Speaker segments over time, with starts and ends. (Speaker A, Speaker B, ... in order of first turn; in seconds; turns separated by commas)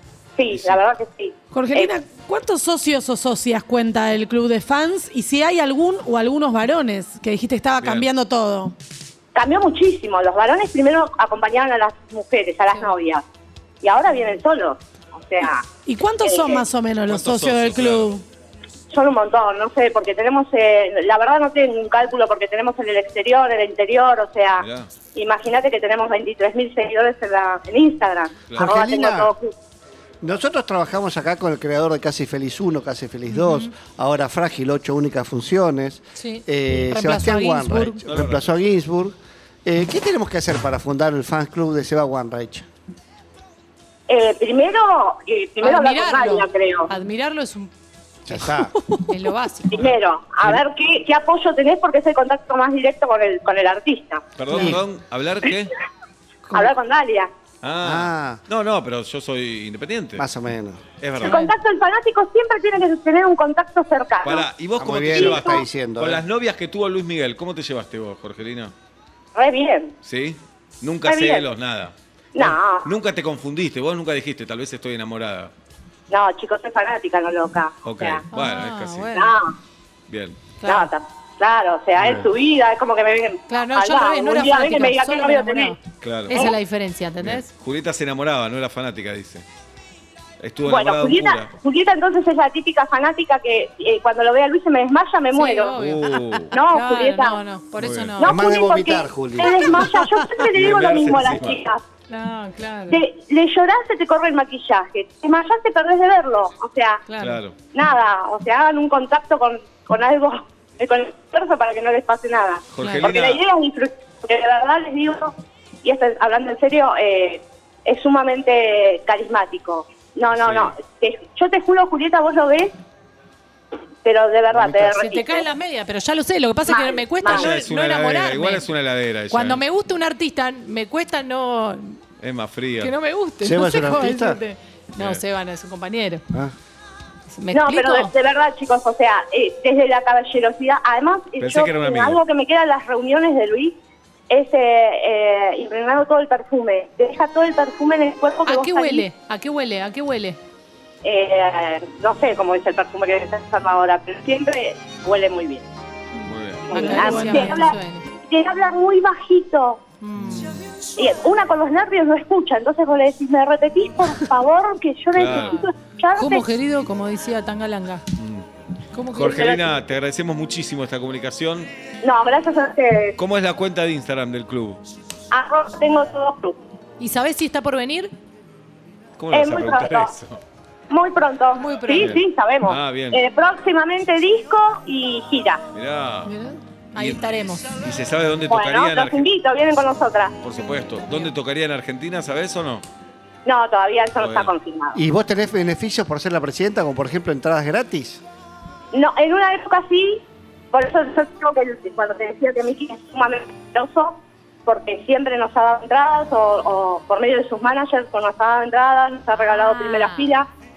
Speaker A: 0.4-2.0, Speaker B: 0.5-0.8, Speaker C: 1.5-8.7, Speaker B: 7.8-8.1, Speaker A: 9.3-13.2, Speaker A: 13.8-15.7, Speaker C: 15.9-18.2, Speaker A: 16.2-16.7, Speaker B: 17.1-18.2, Speaker A: 18.9-29.5, Speaker B: 24.6-24.9, Speaker D: 28.5-29.3, Speaker D: 30.2-42.7, Speaker E: 33.3-33.7, Speaker E: 36.2-38.0, Speaker B: 38.1-38.7, Speaker A: 44.1-46.9, Speaker E: 45.6-47.7, Speaker D: 48.3-48.8, Speaker C: 48.8-49.2, Speaker E: 49.1-49.8, Speaker A: 49.7-54.2, Speaker B: 49.8-50.6, Speaker B: 54.4-55.8, Speaker D: 54.5-54.8, Speaker D: 56.5-56.7, Speaker A: 56.5-57.3, Speaker B: 57.6-60.2, Speaker D: 57.8-58.4, Speaker D: 60.2-60.9, Speaker B: 61.0-61.5, Speaker A: 61.2-64.5, Speaker B: 64.2-68.7, Speaker D: 64.8-66.2, Speaker A: 65.1-65.6, Speaker A: 69.3-70.0, Speaker B: 70.0-75.5, Speaker A: 71.0-71.5, Speaker A: 72.3-72.9, Speaker A: 76.1-78.2, Speaker B: 77.8-79.2, Speaker E: 78.3-79.3, Speaker A: 79.2-79.5, Speaker B: 80.1-80.5, Speaker E: 80.6-80.9, Speaker A: 80.7-85.8, Speaker B: 82.0-82.3, Speaker E: 83.5-87.5, Speaker B: 86.0-86.5, Speaker B: 87.2-89.5, Speaker B: 90.4-91.5, Speaker A: 90.7-95.8, Speaker E: 95.3-96.2, Speaker B: 95.8-96.5, Speaker A: 96.5-97.4, Speaker E: 96.7-98.4, Speaker B: 97.8-98.2, Speaker A: 98.2-101.8, Speaker D: 98.2-99.9, Speaker B: 100.4-101.6, Speaker E: 102.1-103.0, Speaker A: 102.9-107.0, Speaker E: 107.1-107.4, Speaker B: 107.2-107.5, Speaker A: 107.7-122.7, Speaker B: 112.7-113.4, Speaker E: 112.8-113.1, Speaker B: 120.3-120.7, Speaker A: 124.0-125.5, Speaker D: 124.5-124.8, Speaker E: 124.9-128.7, Speaker A: 126.7-127.5, Speaker B: 127.3-129.6, Speaker E: 129.3-132.0, Speaker B: 132.2-132.9, Speaker E: 132.8-136.2, Speaker D: 133.4-134.4, Speaker B: 135.0-135.2, Speaker E: 137.3-138.1, Speaker A: 137.5-143.8, Speaker B: 141.4-142.2, Speaker A: 144.3-149.1, Speaker E: 148.4-150.4, Speaker A: 151.0-155.7, Speaker E: 156.2-158.0, Speaker B: 156.2-156.8, Speaker A: 156.7-159.8, Speaker C: 156.7-157.8, Speaker E: 160.0-160.5, Speaker B: 160.2-160.6, Speaker A: 161.0-166.5, Speaker B: 165.2-165.6, Speaker E: 165.4-168.0, Speaker B: 168.2-168.5, Speaker E: 168.9-169.5, Speaker B: 169.2-171.7, Speaker A: 169.2-169.8, Speaker A: 172.0-173.2, Speaker B: 173.2-174.8, Speaker A: 175.3-176.6, Speaker E: 177.0-178.1, Speaker B: 179.2-180.4, Speaker A: 179.3-180.1, Speaker A: 180.9-185.6, Speaker E: 181.6-182.2, Speaker B: 182.0-183.2, Speaker B: 185.7-186.3, Speaker C: 186.2-186.6, Speaker E: 186.9-187.7, Speaker B: 187.0-189.3, Speaker A: 188.5-190.3, Speaker B: 190.4-192.8, Speaker A: 193.4-195.0, Speaker B: 194.2-194.5, Speaker D: 194.9-198.2, Speaker A: 198.9-210.5, Speaker E: 209.4-210.2